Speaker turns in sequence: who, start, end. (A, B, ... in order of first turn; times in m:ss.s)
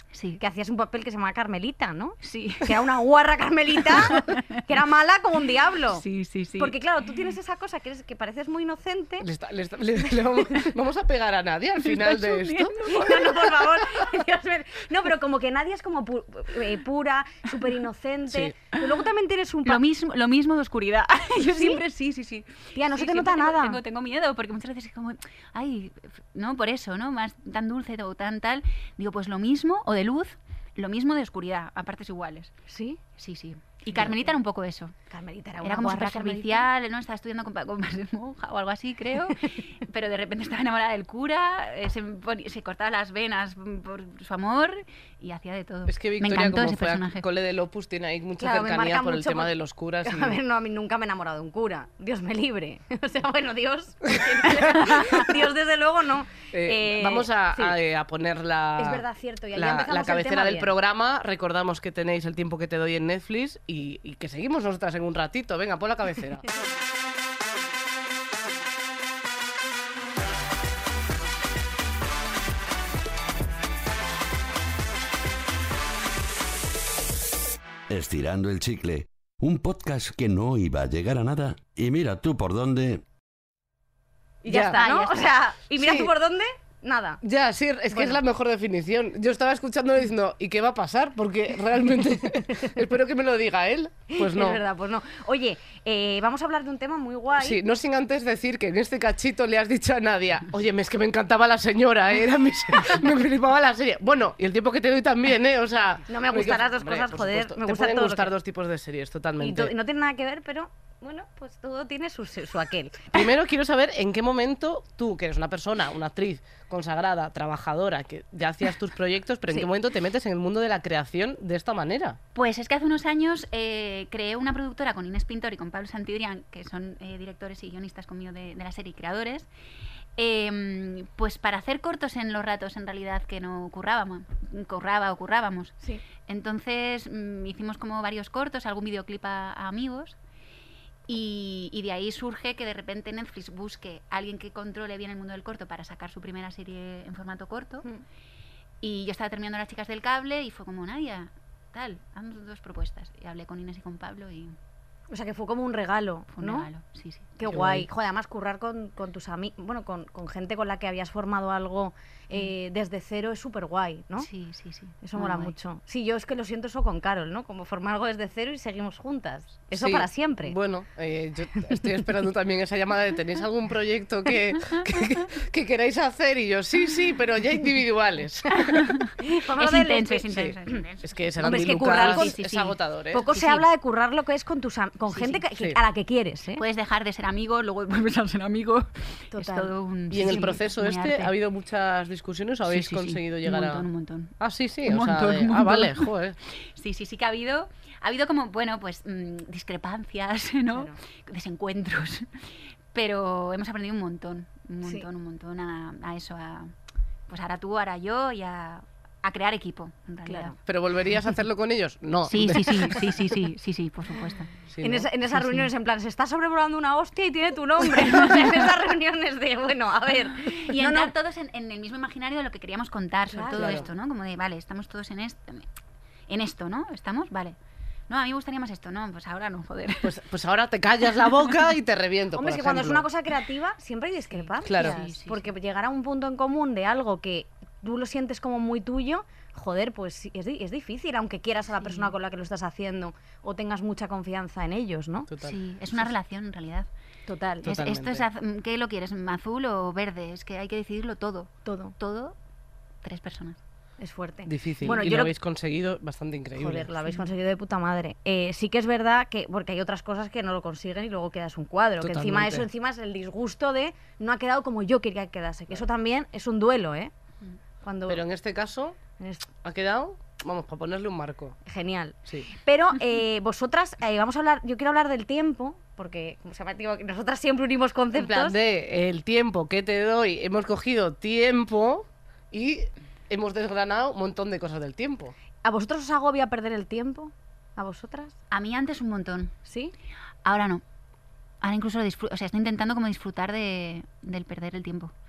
0:00.1-0:00.4 A
0:00.4-0:06.0 B
0:02.2-0:02.8 A
0:03.9-0:04.6 A
0:05.9-0:06.8 A
0:06.6-0:09.3 B
0:09.2-0:13.1 C
0:11.8-0:13.6 A
0:12.8-0:19.8 B
0:18.3-0:18.6 C
0:19.7-0:32.5 A
0:21.4-0:21.8 B
0:22.8-0:23.8 B
0:32.7-0:33.0 B
0:33.2-0:34.9 A
0:33.9-0:34.3 B
0:35.1-0:36.7 B
0:35.6-0:47.2 A
0:45.9-0:50.4 C
0:48.4-0:49.5 B
0:50.0-0:57.8 B
0:54.1-0:55.3 C
0:56.5-1:06.4 C
0:58.8-1:00.7 B
1:17.9-1:23.0 D
1:24.4-1:27.2 B
1:24.5-1:24.8 C
1:24.8-1:25.2 A
1:25.8-1:26.1 C
1:27.2-1:34.6 C
1:27.9-1:28.2 B
1:34.1-1:37.6 B
1:37.4-1:49.7 C
1:46.1-1:48.3 B
1:49.4-1:53.2 B
1:53.1-2:02.2 C
2:02.4-2:09.5 A
2:10.2-2:20.2 A
2:21.1-2:27.9 A
2:28.8-2:34.6 A
2:35.1-2:36.7 B
2:36.3-2:37.3 A
2:37.4-2:44.3 B
2:37.4-2:37.9 C
2:44.2-2:45.5 A
2:45.0-2:50.6 B
2:49.7-2:58.8 C
2:51.6-2:51.8 B
2:58.6-3:00.8 B
2:58.7-3:03.7 A
3:00.3-3:03.2 C
3:01.4-3:02.4 B
3:03.1-3:06.6 B
3:05.1-3:05.4 A
3:06.6-3:11.3 A
3:09.3-3:09.7 B
3:10.1-3:13.9 C
3:12.7-3:14.4 A
3:14.4-3:16.4 C
3:14.9-3:26.7 A
3:20.7-3:21.0 B
3:27.3-3:30.6 A
3:30.3-3:30.5 B
3:30.7-3:33.0 C
3:32.3-3:34.5 A
3:32.7-3:33.0 B
3:34.7-3:35.1 C
3:34.8-3:41.1 B
3:35.3-3:35.7 A
3:40.5-3:45.7 A
3:43.3-3:43.9 B
3:43.5-3:43.9 C
3:46.3-3:47.6 A
3:48.1-3:50.2 A
3:50.0-3:53.0 C
3:52.4-4:05.3 B
3:54.3-3:55.5 A
3:54.6-3:55.0 C
4:01.8-4:02.1 A
4:05.3-4:06.1 C
4:05.4-4:06.9 A
4:07.3-4:07.7 B
4:07.6-4:12.4 A
4:07.6-4:08.3 C
4:11.7-4:12.0 B
4:13.0-4:13.6 A
4:14.0-4:15.3 B
4:14.5-4:16.9 C
4:16.6-4:27.1 B
4:22.0-4:22.7 C
4:27.8-4:28.2 B
4:28.1-4:29.0 C
4:29.2-4:29.5 B
4:29.6-4:31.6 C
4:31.7-4:38.6 B
4:38.1-4:45.3 C
4:45.6-4:48.4 B
4:48.5-4:49.5 A
4:49.7-4:49.9 B
4:50.4-4:50.8 A
4:51.6-4:55.1 A